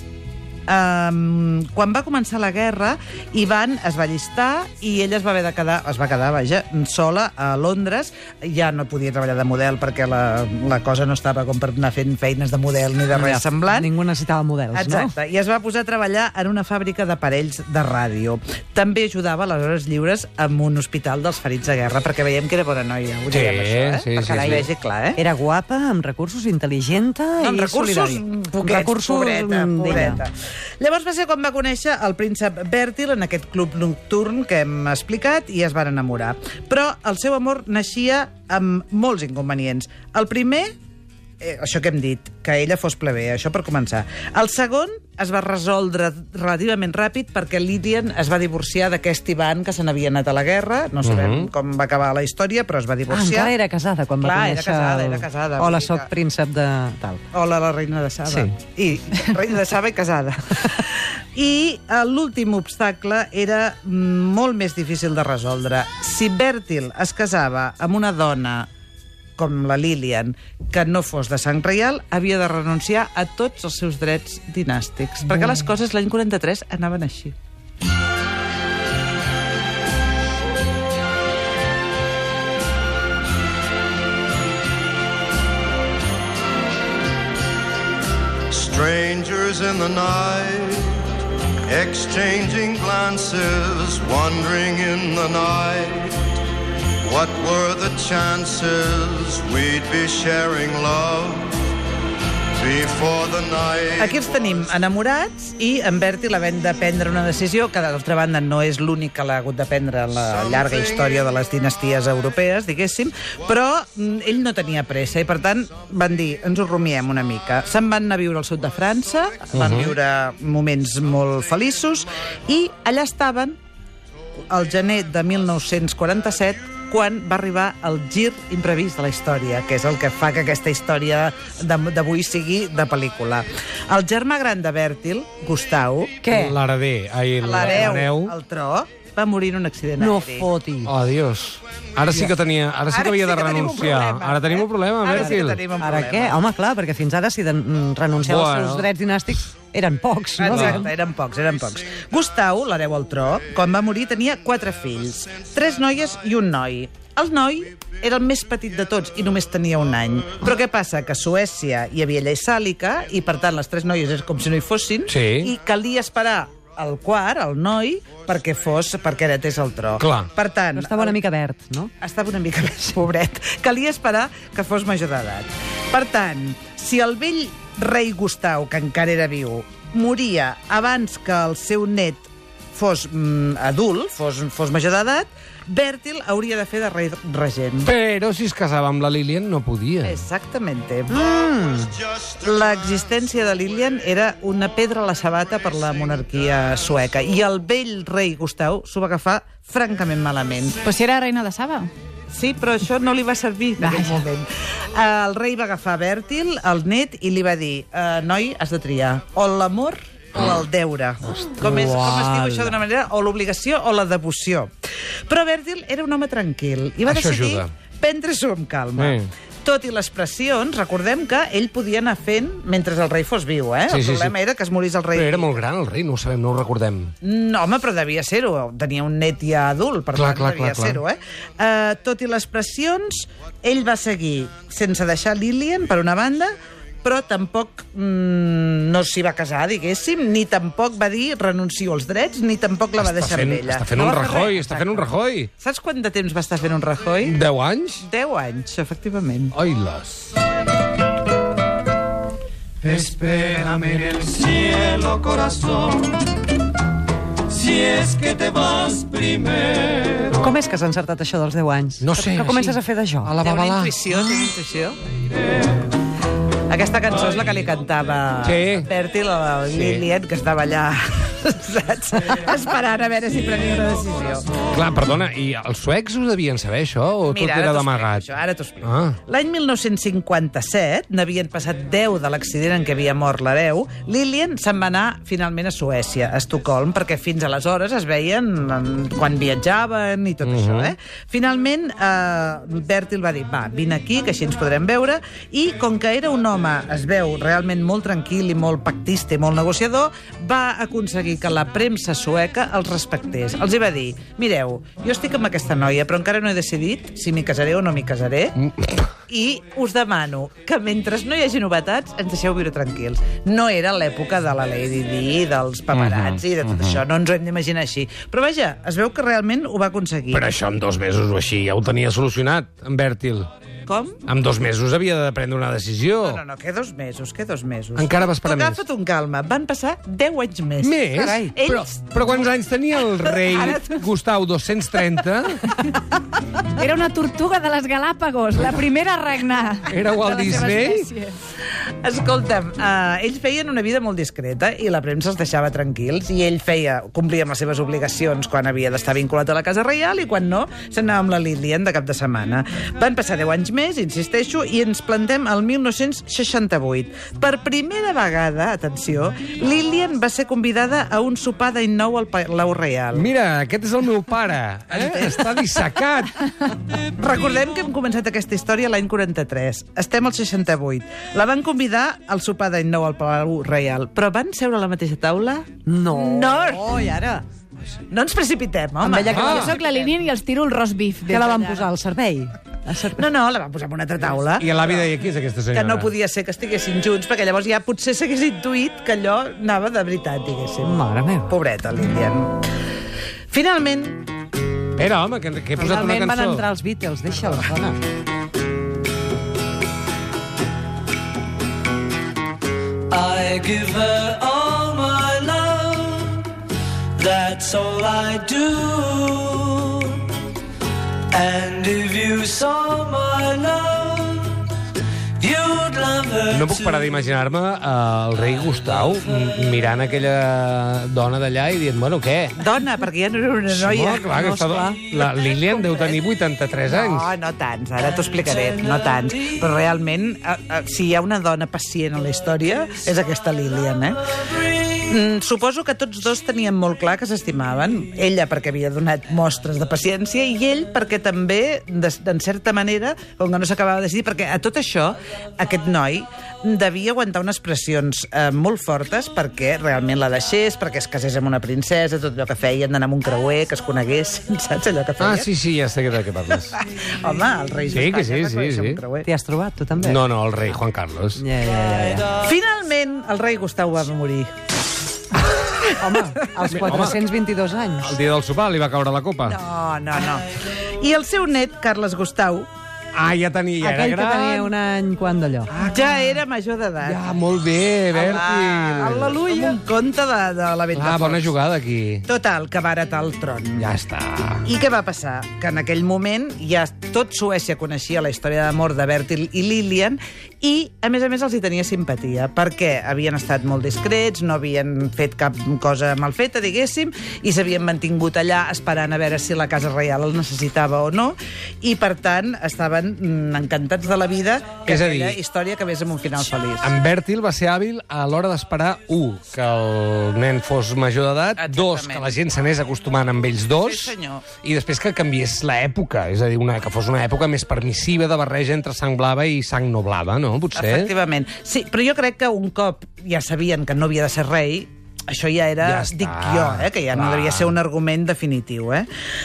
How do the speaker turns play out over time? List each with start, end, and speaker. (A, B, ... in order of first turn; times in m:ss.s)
0:00.7-0:13.9 A
0:13.1-0:15.1 B
0:14.7-0:25.2 A
0:23.3-0:24.7 C
0:24.2-0:30.2 B
0:27.4-0:40.7 A
0:41.4-0:53.5 A
0:51.0-0:51.5 C
0:53.1-0:57.2 B
0:54.2-0:56.1 A
0:57.3-1:08.7 A
0:58.3-0:58.6 B
1:09.4-1:17.4 A
1:28.5-1:36.2 D
1:37.0-1:41.7 D
1:42.6-1:44.3 D
1:44.0-2:03.6 A
1:59.5-1:59.9 C
2:04.5-2:16.2 A
2:16.2-2:16.6 B
2:16.3-2:18.3 C
2:17.4-2:20.5 A
2:17.6-2:17.9 B
2:20.0-2:20.9 B
2:20.8-2:25.6 C
2:22.9-2:26.4 A
2:25.8-2:30.9 B
2:28.2-2:28.9 C
2:30.4-2:51.2 A
2:30.5-2:30.8 C
2:45.1-2:45.5 C
2:50.0-2:50.3 C
2:50.8-2:51.9 B
2:52.0-3:07.9 A
3:07.8-3:10.2 C
3:10.0-3:11.2 A
3:11.1-3:11.9 B
3:12.3-3:20.8 A
3:20.8-3:21.9 E
3:22.3-3:34.7 A
3:23.8-3:24.2 E
3:31.6-3:32.8 B
3:35.3-3:45.5 A
3:37.1-3:37.7 C
3:39.0-3:39.3 C
3:43.9-3:44.3 C
3:45.1-3:47.1 C
3:47.2-4:07.4 A
3:50.1-3:51.0 C
4:03.0-4:05.5 C
4:07.2-4:08.0 C
4:08.0-4:09.6 A
4:09.5-4:10.3 C
4:12.8-4:15.6 C
4:20.3-4:23.3 B
4:22.0-4:24.1 C
4:23.4-4:25.0 A
4:26.7-4:34.5 A
4:28.4-4:28.9 C
4:29.7-4:30.0 C
4:34.7-4:38.3 C
4:37.3-5:08.6 A
4:38.8-4:39.2 C
4:50.4-4:50.9 C
5:08.6-5:09.0 C
5:09.3-5:20.5 A
5:15.9-5:17.0 C
5:20.3-5:23.5 C
5:23.9-5:24.2 A
5:24.3-5:26.4 C
5:26.2-5:32.4 A
5:28.0-5:28.8 C
5:30.8-5:35.8 C
5:31.1-5:31.5 B
5:33.3-5:34.0 A
5:36.8-5:41.4 E
5:39.9-5:41.1 C
5:42.0-6:03.3 A
6:03.1-6:06.5 C
6:04.9-6:05.5 A
6:07.0-6:16.9 A
6:15.9-6:17.4 B
6:18.1-6:19.9 A
6:19.0-6:19.8 B
6:19.3-6:19.8 C
6:19.4-6:21.9 E
6:21.3-6:23.3 B
6:23.2-6:25.1 A
6:24.6-6:26.1 C
6:25.7-6:32.7 A
6:30.8-6:31.5 B
6:33.5-6:34.3 A
6:35.0-6:36.6 C
6:35.8-6:38.0 B
6:43.4-6:43.6 B
6:43.7-6:44.2 F
6:47.2-6:48.8 F
6:51.3-6:53.4 F
6:55.4-6:56.6 F
6:56.5-7:02.6 C
7:02.6-7:04.3 A
7:03.7-7:07.3 C
7:04.3-7:05.1 B
7:06.9-7:35.5 A
7:35.2-7:36.8 C
7:36.8-7:39.3 A
7:37.9-7:39.0 C
7:39.2-7:40.2 B
7:40.0-7:41.4 C
7:41.4-7:42.3 B
7:42.4-7:44.5 A
7:45.5-7:45.8 A
7:46.0-7:48.1 B
7:46.6-7:46.9 A
7:46.7-7:47.2 C
7:48.0-7:49.6 C
7:49.5-7:52.7 A
7:53.2-7:54.8 C
7:53.8-7:55.7 B
7:55.7-7:56.4 C
7:55.8-7:57.2 A
7:57.0-7:59.6 C
7:58.1-8:01.5 A
8:00.9-8:02.3 C
8:02.3-8:03.9 A
8:03.8-8:04.6 C
8:04.6-8:26.9 A
8:24.9-8:25.4 C
8:26.8-8:41.1 C
8:31.6-8:32.4 A
8:33.8-8:34.5 A
8:40.8-8:49.1 A
8:45.8-8:47.7 C